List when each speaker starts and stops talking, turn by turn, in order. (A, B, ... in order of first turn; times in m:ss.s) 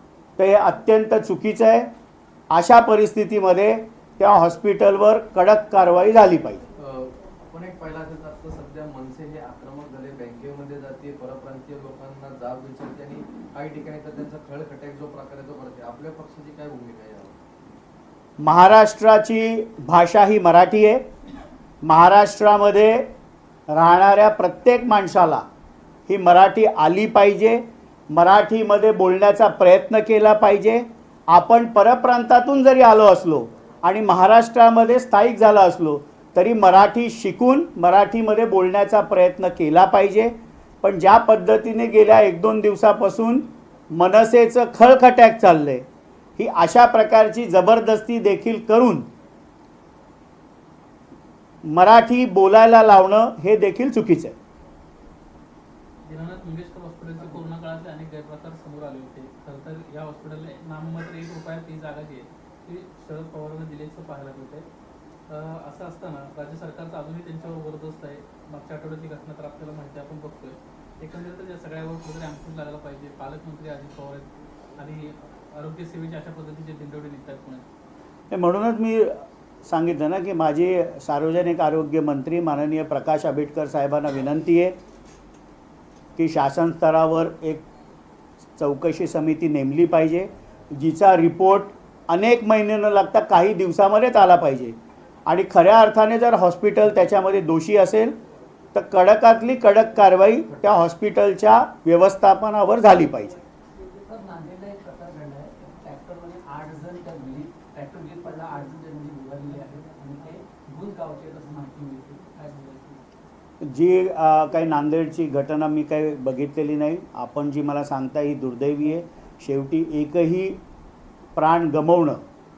0:00.4-0:01.9 A
0:02.5-0:06.6 A
0:06.7-0:17.4 B
0:18.4-0:21.0 A
0:21.8-0:23.1 A
0:23.7-0:25.4 A
0:26.1-0:45.8 A
0:46.4-0:49.1 A
0:51.6-0:54.3 A
0:56.0-1:04.7 C
1:05.3-1:14.3 C
1:14.8-1:17.6 C
1:18.3-1:24.8 A
1:26.2-1:27.6 A
1:28.6-1:38.2 A
1:38.7-1:43.4 A
1:43.7-1:53.0 D
1:53.6-2:00.6 A
2:01.4-2:02.2 A